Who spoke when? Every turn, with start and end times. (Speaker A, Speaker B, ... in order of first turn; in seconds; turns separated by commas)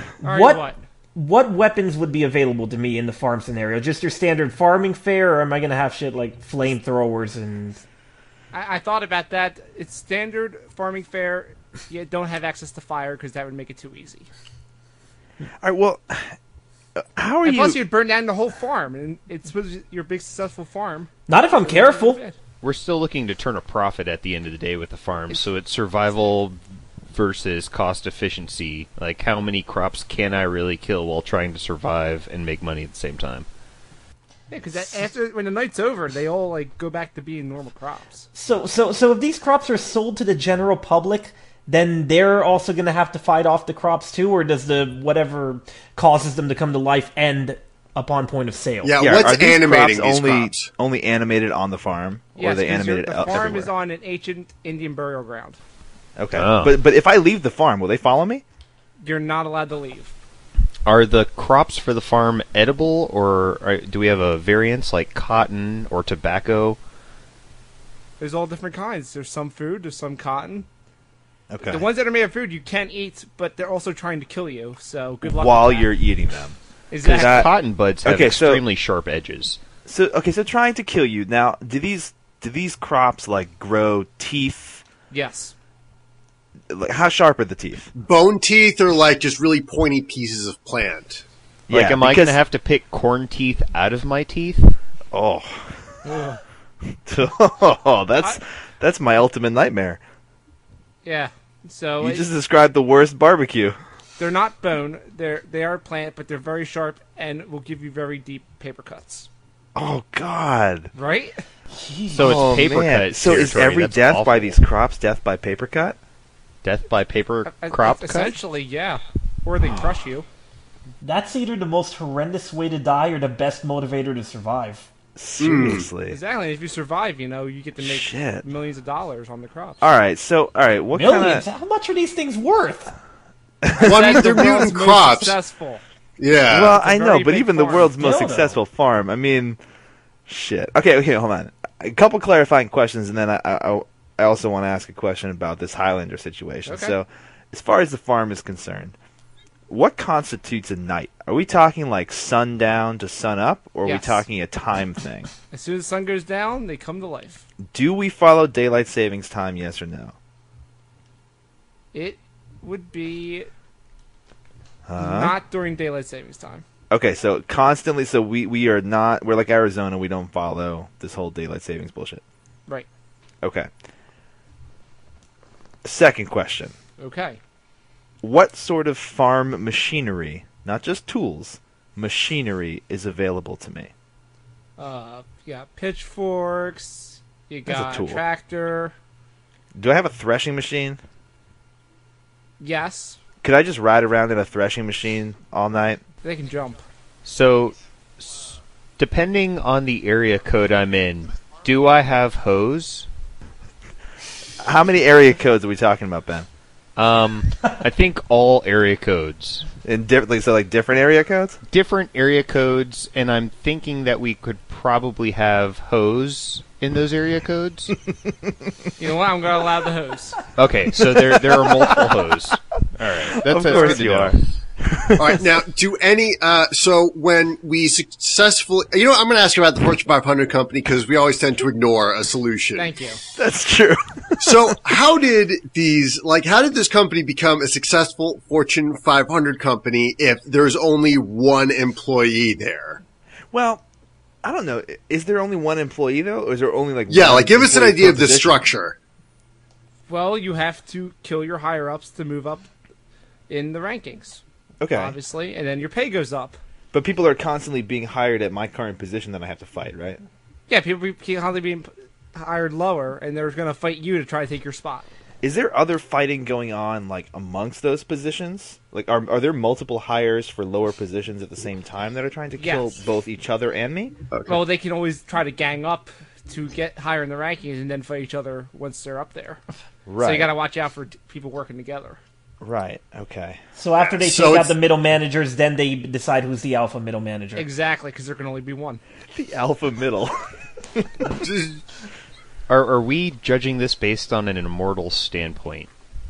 Speaker A: 0.2-7.8, Speaker B: 0.2-0.8, Speaker B: 8.5-14.3, Speaker C: 15.6-16.4, Speaker C: 17.0-17.8, Speaker B: 17.4-21.1, Speaker A: 21.3-22.2, Speaker B: 21.6-22.4, Speaker D: 22.6-26.6, Speaker D: 27.1-33.5, Speaker B: 34.5-38.3, Speaker A: 38.4-49.0, Speaker E: 48.8-50.7, Speaker C: 49.0-53.7, Speaker B: 52.4-55.6, Speaker C: 56.2-58.4, Speaker D: 56.3-56.8, Speaker B: 59.0-60.1, Speaker D: 60.9-66.8, Speaker B: 68.2-70.7, Speaker C: 71.5-71.9, Speaker B: 71.6-75.9, Speaker C: 75.2-77.5, Speaker B: 76.9-77.5, Speaker D: 77.0-79.6, Speaker C: 78.0-78.6, Speaker C: 79.9-84.8, Speaker B: 85.1-85.5, Speaker C: 86.7-87.9, Speaker E: 88.0-91.2, Speaker C: 91.7-92.4, Speaker D: 91.7-94.8, Speaker C: 95.1-96.0, Speaker B: 96.0-96.4, Speaker C: 97.1-100.0, Speaker B: 101.0-102.3, Speaker C: 102.0-103.8, Speaker B: 104.2-109.3, Speaker C: 109.8-110.9, Speaker B: 110.9-111.4, Speaker A: 111.7-112.3, Speaker D: 112.1-114.6, Speaker C: 112.1-116.0, Speaker D: 116.6-118.4, Speaker B: 117.5-120.3, Speaker A: 121.0-124.9, Speaker C: 125.2-126.2, Speaker E: 125.4-125.9, Speaker B: 126.1-129.8, Speaker C: 127.8-128.5, Speaker C: 129.8-131.4, Speaker A: 130.9-132.9, Speaker C: 133.6-134.6, Speaker B: 133.8-135.8, Speaker E: 133.8-135.4, Speaker E: 136.2-136.8, Speaker C: 136.5-139.6, Speaker B: 136.7-137.9, Speaker A: 138.0-138.6, Speaker C: 140.3-149.0, Speaker B: 146.7-146.9, Speaker C: 149.7-155.3, Speaker B: 153.8-154.2, Speaker B: 155.5-157.4, Speaker C: 157.7-160.2, Speaker B: 161.9-163.5, Speaker C: 164.9-165.4, Speaker B: 165.0-166.6, Speaker C: 166.9-172.2, Speaker C: 173.4-173.7, Speaker C: 175.8-176.7, Speaker B: 177.0-177.4, Speaker C: 178.2-183.9, Speaker B: 184.8-188.9, Speaker C: 187.7-188.2, Speaker C: 189.8-191.0, Speaker B: 192.6-193.2, Speaker C: 193.4-196.0, Speaker B: 196.2-196.8, Speaker D: 197.2-203.1, Speaker C: 204.6-206.5, Speaker D: 207.0-209.7, Speaker C: 209.8-211.6, Speaker D: 211.7-218.0, Speaker B: 219.0-220.4, Speaker D: 220.6-224.4, Speaker C: 221.0-222.2, Speaker C: 223.2-225.6, Speaker E: 225.2-232.9, Speaker B: 232.8-233.2, Speaker C: 233.4-234.8, Speaker E: 234.4-243.0, Speaker C: 243.5-243.8, Speaker C: 244.4-248.7, Speaker E: 247.1-249.0, Speaker B: 250.1-252.7, Speaker B: 253.5-256.6, Speaker C: 254.8-255.2, Speaker C: 256.9-260.2, Speaker B: 260.7-265.1, Speaker C: 265.4-274.1, Speaker B: 272.6-273.0, Speaker E: 274.3-274.6, Speaker B: 274.5-279.6, Speaker C: 280.1-280.5, Speaker B: 280.2-282.2, Speaker C: 282.6-283.6, Speaker A: 283.8-287.7, Speaker E: 284.0-284.8, Speaker B: 287.6-289.0, Speaker C: 289.3-290.3, Speaker C: 290.9-291.3, Speaker E: 291.3-291.8, Speaker D: 292.7-295.9